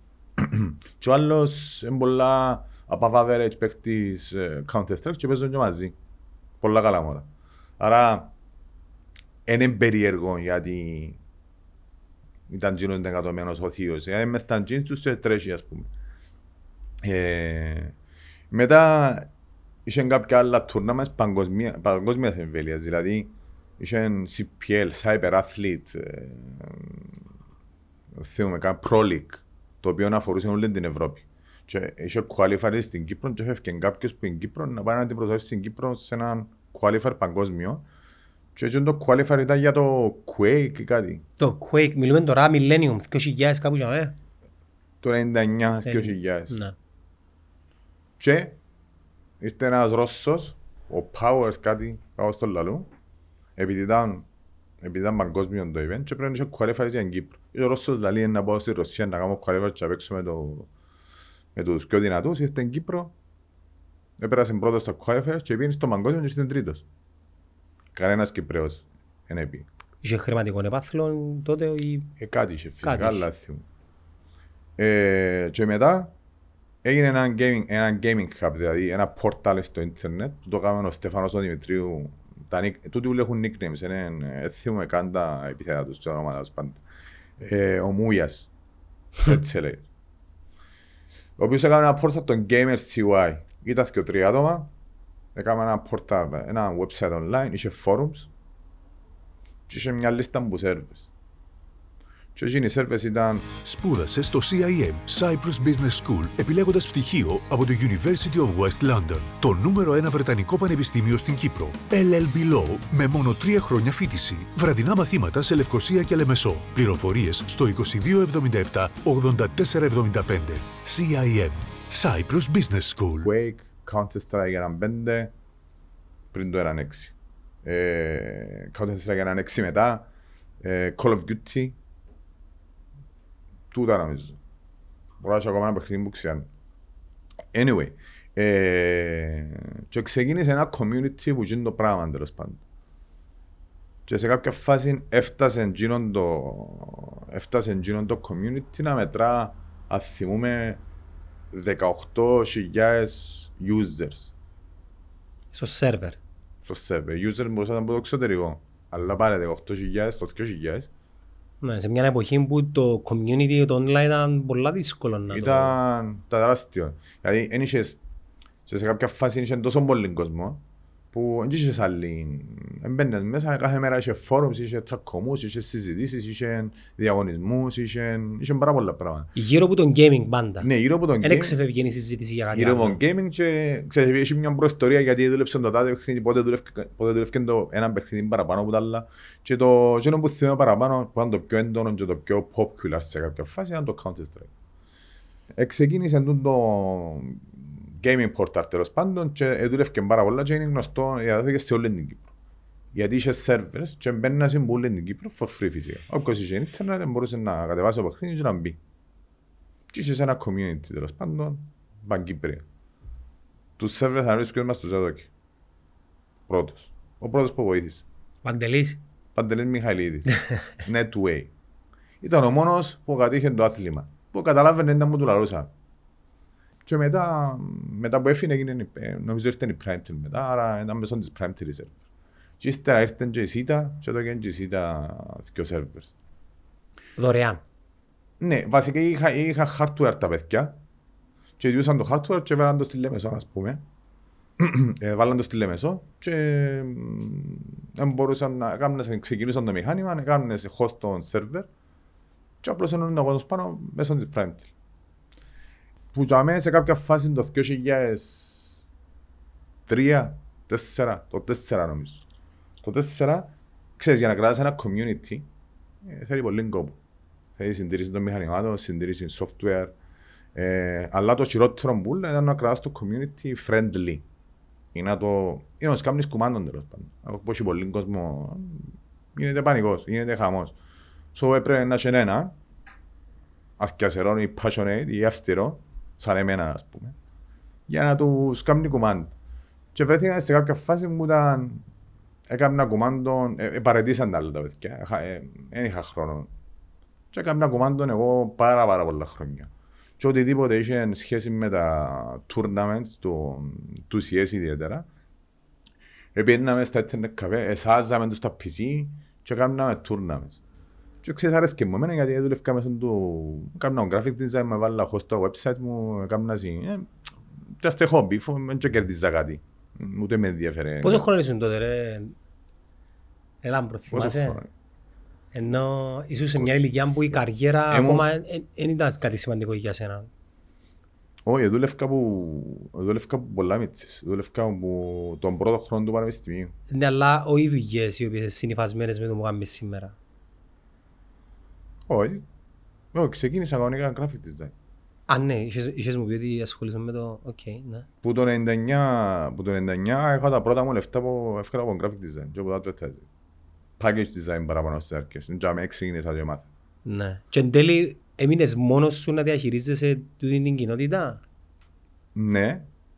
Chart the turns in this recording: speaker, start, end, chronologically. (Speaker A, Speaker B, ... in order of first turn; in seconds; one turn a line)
Speaker A: 0.4-6.0
Speaker A: 6.6-7.3
Speaker A: 7.8-8.3
Speaker A: 9.5-11.2
Speaker A: 12.5-15.9
Speaker A: 17.0-17.9
Speaker A: 18.5-19.3
Speaker A: 19.9-27.2
Speaker A: 28.1-37.9
Speaker A: 38.5-41.2
Speaker B: 41.4-44.1
Speaker A: 45.0-46.6
Speaker B: 45.9-46.8
Speaker A: 48.2-48.6
Speaker A: 49.4-52.9
Speaker A: 53.6-54.3
Speaker A: 54.8-60.7
Speaker A: 61.5-63.1
Speaker A: 64.2-66.8
Speaker A: 67.9-69.7
Speaker B: 70.0-72.1
Speaker A: 72.2-73.7
Speaker B: 72.8-73.3
Speaker A: 74.8-76.1
Speaker A: 76.8-86.8
Speaker A: 87.4-88.5
Speaker A: 89.2-89.9
Speaker A: 91.4-94.7
Speaker A: 95.3-98.3
Speaker A: 99.7-101.1
Speaker A: 102.3-103.6
Speaker C: 103.6-123.3
Speaker A: 123.2-125.3
Speaker A: 126.3-130.1
Speaker A: 130.6-131.8
Speaker A: 133.7-134.4
Speaker A: 135.2-136.5
Speaker A: 137.5-142.6
Speaker A: 144.1-150.8
Speaker A: 151.5-154.3
Speaker B: 155.5-156.2
Speaker A: 156.6-160.9
Speaker B: 161.6-165.8
Speaker A: 165.3-168.0
Speaker A: 168.7-179.3
Speaker B: 179.3-180.7
Speaker A: 180.6-181.6
Speaker B: 181.2-183.0
Speaker A: 182.5-194.5
Speaker A: 195.6-202.3
Speaker A: 202.9-208.8
Speaker A: 209.9-212.7
Speaker A: 213.8-215.3
Speaker A: 216.5-218.0
Speaker B: 218.4-219.0
Speaker A: 219.3-221.5
Speaker A: 222.2-225.7
Speaker A: 226.9-232.0
Speaker A: 232.6-236.1
Speaker B: 237.2-237.6
Speaker A: 238.4-240.8
Speaker A: 241.6-243.8
Speaker A: 244.6-251.7
Speaker A: 252.6-254.7
Speaker A: 256.1-258.8
Speaker A: 259.9-262.2
Speaker A: 262.8-265.5
Speaker A: 266.0-267.0
Speaker A: 267.6-269.9
Speaker A: 270.6-274.2
Speaker A: 274.9-280.8
Speaker A: 281.3-282.6
Speaker A: 283.8-287.2
Speaker A: 287.9-289.3
Speaker A: 289.9-291.9
Speaker A: 292.5-296.5
Speaker A: 297.3-305.1
Speaker A: 306.4-310.6
Speaker A: 311.2-321.3
Speaker B: 321.0-322.4
Speaker B: 323.6-324.6
Speaker A: 324.1-324.7
Speaker B: 325.5-330.3
Speaker A: 327.9-328.3
Speaker A: 331.5-336.7
Speaker B: 336.9-340.1
Speaker A: 342.1-342.4
Speaker A: 343.1-344.7
Speaker B: 345.3-348.1
Speaker A: 348.2-353.3
Speaker A: 354.0-356.7
Speaker B: 357.1-361.4
Speaker A: 362.4-362.9